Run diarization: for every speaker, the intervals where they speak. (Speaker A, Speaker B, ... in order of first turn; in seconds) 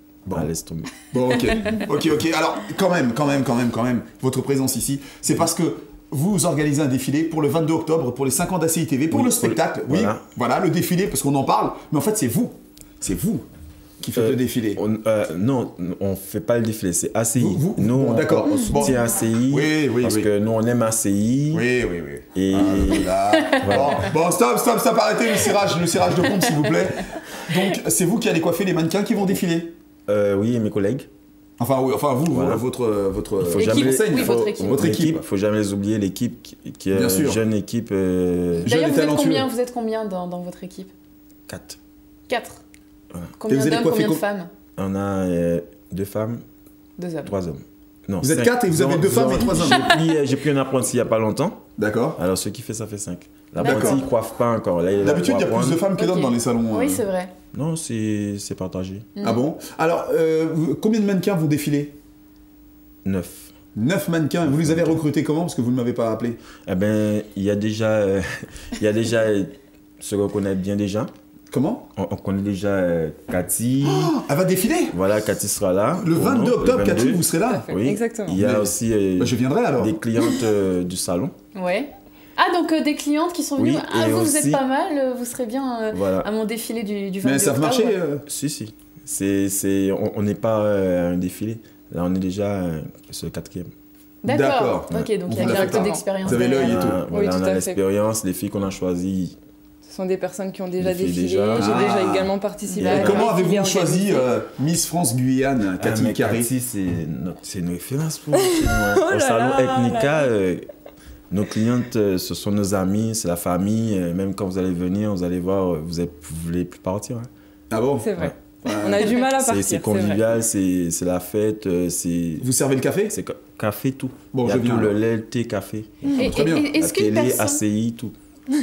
Speaker A: 0.3-1.0, 9.1-10.2, 14.2-21.6, 22.4-24.1, 30.1-31.1, 32.3-32.6, 33.4-38.7, 41.5-41.8, 44.8-46.4, 47.2-51.6, 52.2-55.8, 57.5-59.1, 63.0-63.5, 64.5-65.0, 66.7-71.1, 72.0-74.1, 74.9-81.3, 83.6-84.6, 85.9-86.3, 88.3-93.7, 96.2-99.4, 100.8-102.0, 102.8-103.3, 105.8-110.7, 111.3-117.3, 119.2-122.5, 123.1-128.1
Speaker B: 1.1-13.4, 14.0-14.8, 17.4-20.3, 21.5-29.7, 31.6-35.2, 36.9-37.4, 38.6-39.5, 43.5-44.2, 48.2-49.9, 51.8-52.2, 53.6-54.0, 55.0-57.1, 59.2-62.0, 63.8-66.4, 71.5-71.9, 73.8-75.0, 76.0-77.7, 78.4-80.0, 87.2-88.2, 94.3-97.0, 101.6-102.3, 102.9-106.5, 117.7-118.1, 118.6-119.2, 122.4-123.2, 124.3-125.0, 126.3-126.7
Speaker C: 18.6-18.9, 26.3-26.8, 33.6-34.9, 38.6-40.9, 42.3-42.6, 43.4-44.5, 47.0-47.3, 49.4-50.0, 53.6-54.0, 56.0-57.3, 59.2-59.4, 81.5-88.0, 94.2-96.8, 102.7-103.2, 126.2-127.6
Speaker D: 77.5-78.4, 95.4-96.0, 97.1-97.8, 99.8-104.3, 108.3-110.3, 118.0-120.2